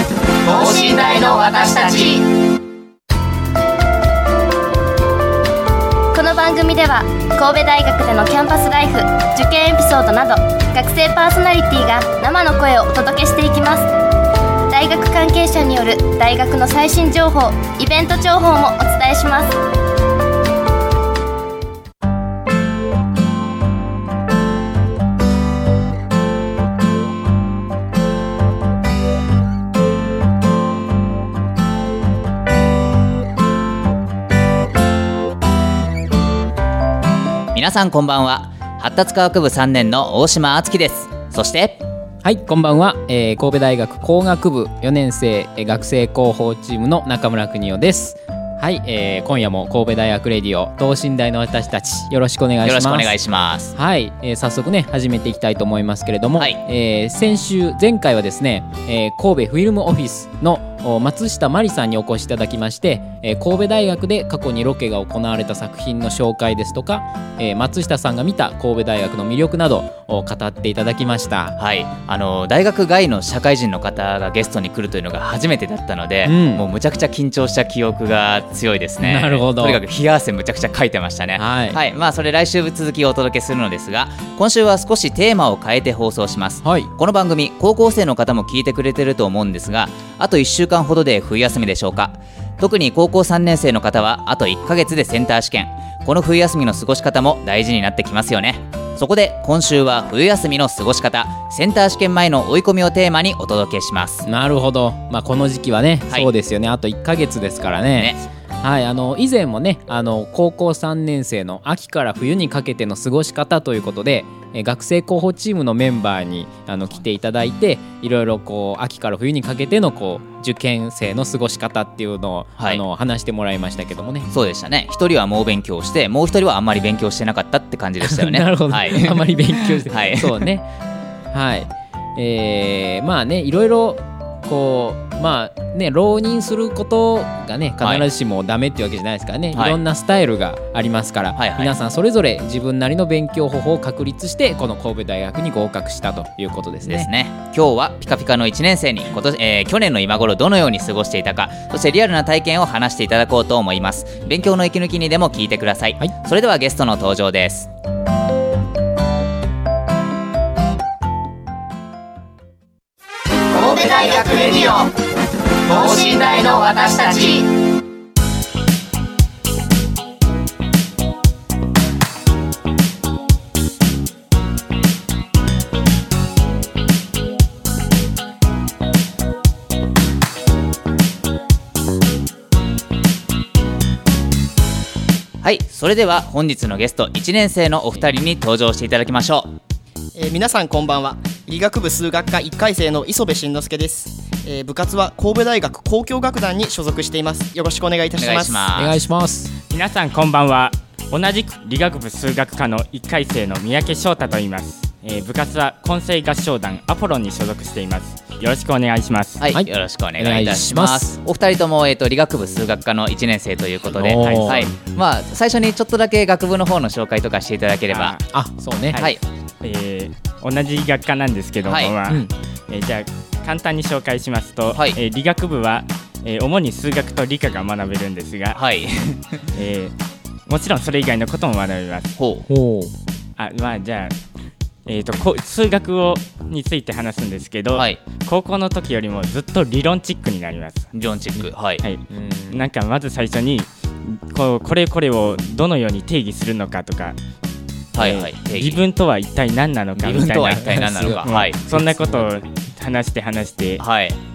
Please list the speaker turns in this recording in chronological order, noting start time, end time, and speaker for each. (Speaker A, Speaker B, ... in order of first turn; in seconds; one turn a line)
Speaker A: 0.4-2.3
Speaker B: 6.1-13.9
Speaker B: 14.7-19.6
Speaker C: 37.5-41.8
Speaker D: 42.2-53.2
Speaker C: 52.6-53.7
Speaker D: 53.7-71.6
Speaker C: 71.6-104.3
Speaker D: 76.2-76.7
Speaker D: 79.0-79.8
Speaker D: 81.4-81.8
Speaker D: 86.6-86.9
Speaker D: 104.2-124.3
Speaker C: 108.0-108.2
Speaker C: 124.3-130.4
Speaker D: 128.0-130.7
Speaker D: 131.3-147.1
Speaker C: 137.8-138.1
Speaker C: 139.5-139.8
Speaker C: 141.4-141.7
Speaker C: 146.8-157.7
Speaker A: 163.5-164.9
Speaker A: 165.7-167.5
Speaker C: 185.4-189.6
Speaker E: 190.2-198.7
Speaker C: 198.2-199.0
Speaker D: 198.8-199.5
Speaker F: 199.7-209.5
Speaker C: 209.4-218.2
Speaker D: 209.5-211.2
Speaker D: 213.9-214.7
Speaker F: 214.2-214.7
Speaker F: 217.9-218.3
Speaker D: 218.3-219.0
Speaker F: 218.9-228.6
Speaker C: 219.0-219.2
Speaker C: 221.6-221.9
Speaker C: 228.5-229.5
Speaker F: 229.5-229.9
Speaker F: 230.5-232.2
Speaker C: 232.2-232.5
Speaker D: 232.5-232.9
Speaker F: 233.4-234.2
Speaker F: 234.8-240.9
Speaker C: 237.7-238.0
Speaker C: 240.9-241.8
Speaker F: 241.8-247.2
Speaker D: 242.1-242.6
Speaker C: 247.9-248.8
Speaker F: 247.9-253.8
Speaker C: 250.0-251.6
Speaker D: 250.7-252.1
Speaker C: 253.8-254.2